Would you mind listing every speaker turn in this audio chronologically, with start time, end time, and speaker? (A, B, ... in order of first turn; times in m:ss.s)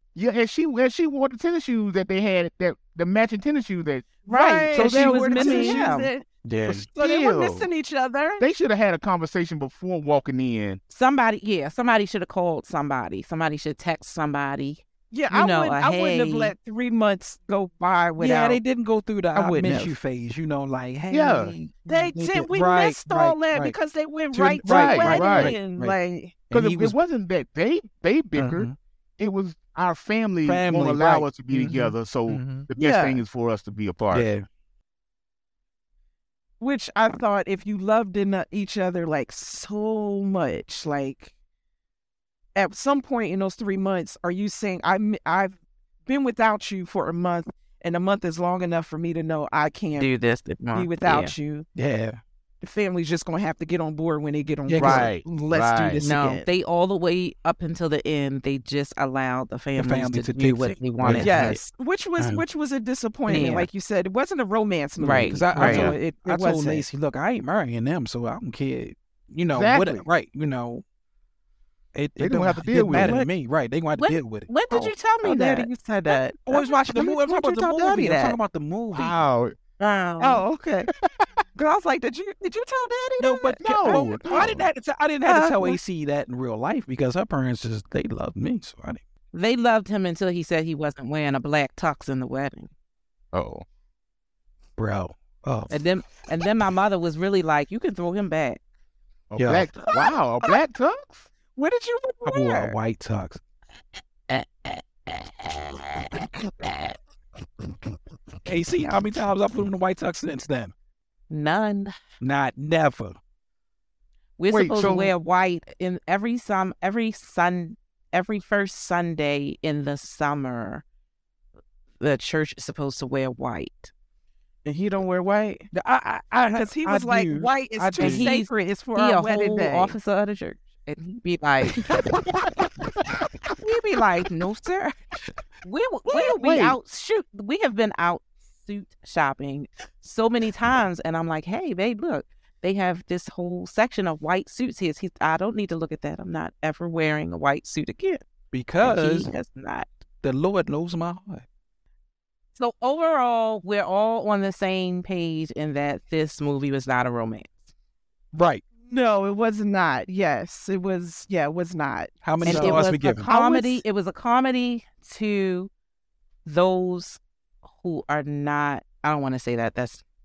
0:00.1-0:05.8 A
0:04.2-0:08.4 B
0:04.3-0:06.1 C
0:06.4-0:06.9 D
0:06.9-0:07.7 A
0:08.4-0:10.8 A
0:10.9-0:16.5 C
0:15.1-0:18.6 B
0:18.2-0:23.8 D
0:19.3-0:20.0 B
0:21.1-0:21.6 A
0:21.9-0:26.4 B
0:24.3-0:26.0 D
0:24.6-0:25.6 A
0:26.5-0:27.0 D
0:26.5-0:34.3 A
0:28.4-0:28.7 D
0:30.4-0:32.7 D
0:32.8-0:33.2 B
0:34.1-0:34.4 D
0:36.6-0:41.3 B
0:42.6-0:50.1 B
0:50.0-0:51.3 C
0:50.7-0:51.7 B
0:51.8-0:52.2 D
0:52.6-0:56.4 B
0:54.7-0:55.1 D
0:54.8-0:56.0 A
0:56.0-1:01.6 C
0:59.8-1:01.6 D
1:01.1-1:06.9 B
1:02.2-1:02.4 D
1:03.3-1:03.7 C
1:03.3-1:03.6 D
1:05.0-1:10.8 D
1:05.0-1:05.4 C
1:05.6-1:06.0 A
1:09.5-1:10.0 A
1:11.9-1:14.5 D
1:12.2-1:13.2 A
1:12.9-1:13.3 B
1:14.0-1:15.7 C
1:15.2-1:18.4 B
1:16.1-1:19.2 D
1:18.9-1:19.6 A
1:19.8-1:20.4 C
1:20.2-1:20.9 B
1:21.0-1:21.3 A
1:21.6-1:24.5 B
1:23.2-1:29.0 D
1:23.6-1:24.7 A
1:25.2-1:25.8 B
1:29.3-1:32.7 C
1:33.3-1:33.6 A
1:34.8-1:35.7 D
1:35.7-1:38.6 C
1:39.3-1:41.3 A
1:39.4-1:39.7 D
1:39.9-1:40.5 B
1:41.5-1:42.8 B
1:42.2-1:43.4 D
1:48.4-1:50.7 D
1:51.3-1:52.0 C
1:52.2-1:53.2 D
1:54.4-2:00.8 C
1:54.5-1:55.1 A
2:02.0-2:03.9 C
2:04.6-2:05.7 B
2:05.7-2:08.3 D
2:06.6-2:09.9 B
2:08.0-2:11.8 C
2:13.6-2:14.9 C
2:15.6-2:28.2 C
2:16.3-2:16.8 A
2:28.5-2:29.3 D
2:28.8-2:30.0 C
2:30.2-2:31.4 D
2:32.6-2:37.6 C
2:38.3-2:38.6 D
2:38.8-2:43.8 B
2:42.2-2:43.3 D
2:42.4-2:45.7 C
2:46.4-2:50.0 C